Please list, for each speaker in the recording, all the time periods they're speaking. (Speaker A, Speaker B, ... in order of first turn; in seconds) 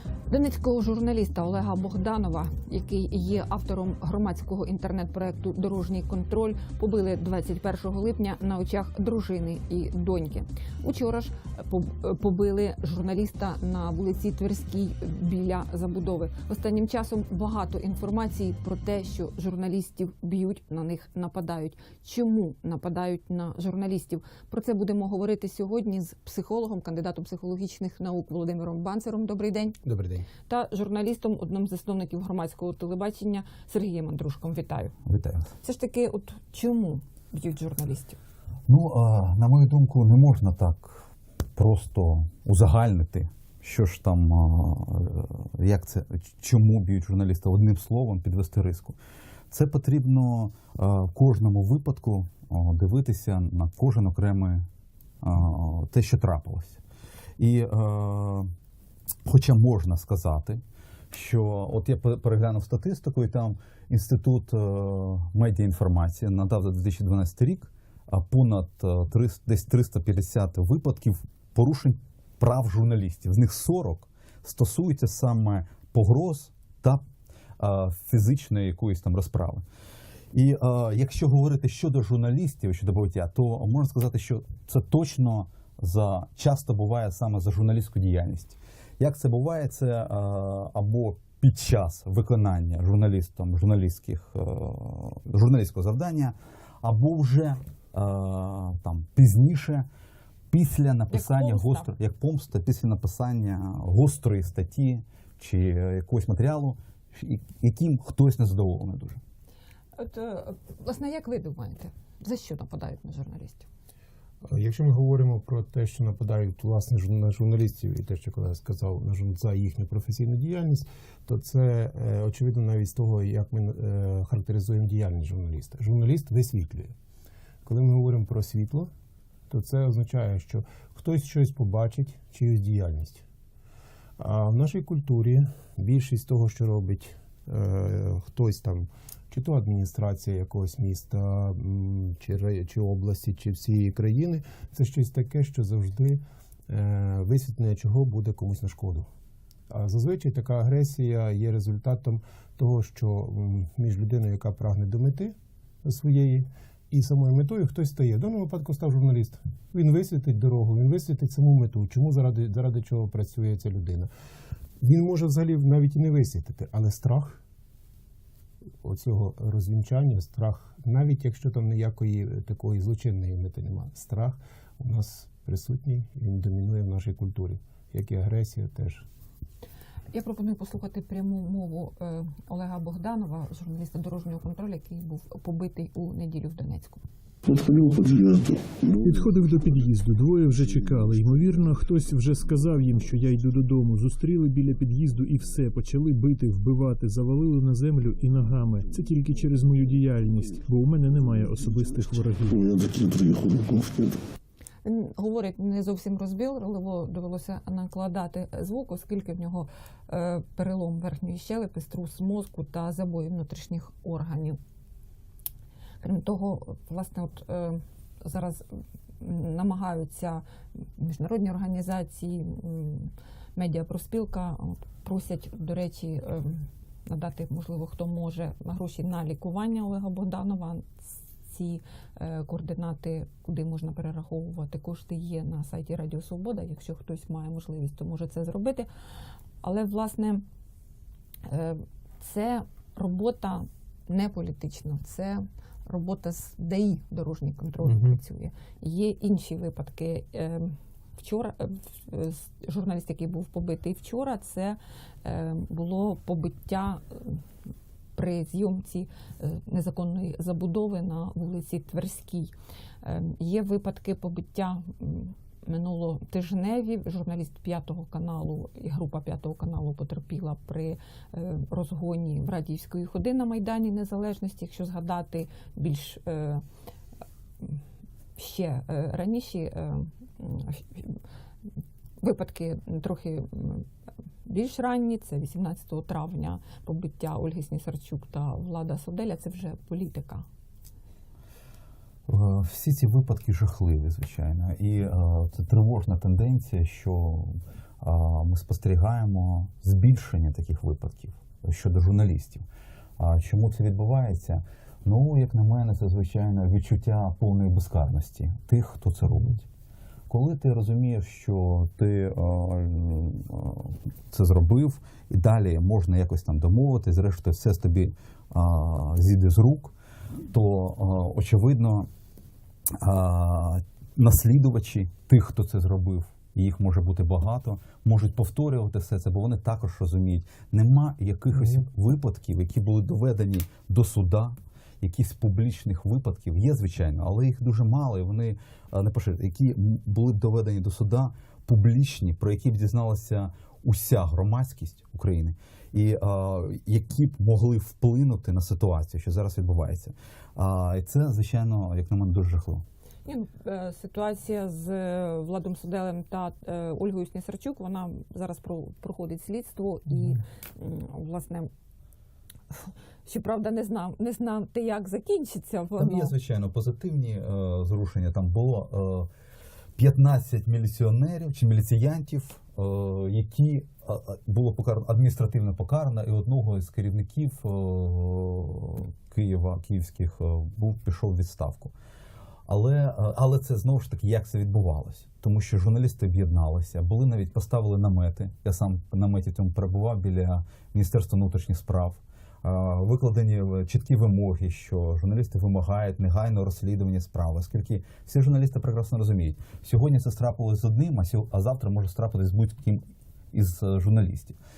Speaker A: 0.3-29.8, 30.5-34.9, 35.6-38.2, 101.1-101.9, 110.0-113.7, 180.1-187.0, 204.8-214.6, 216.0-238.9, 239.6-240.4, 241.5-257.4, 258.2-276.6, 278.4-281.2, 282.2-283.9, 284.4-290.5, 353.2-361.7, 362.7-366.3
Speaker B: 29.8-30.3, 114.4-127.0, 127.6-128.9, 129.5-133.2, 134.2-149.1, 149.7-164.1, 164.8-167.4, 168.8-179.1, 247.8-248.2
Speaker C: 35.1-35.5, 38.7-41.0, 41.6-49.0, 49.5-54.7, 55.2-56.8, 57.4-58.5, 59.2-77.0, 77.6-79.7, 80.3-99.9, 100.5-109.2, 292.3-302.6, 303.2-309.7, 310.3-319.9, 320.5-322.1, 323.0-352.9, 366.0-369.3, 370.0-381.9, 382.7-404.6
Speaker D: 187.4-189.1, 202.6-204.2
Speaker E: 189.0-202.7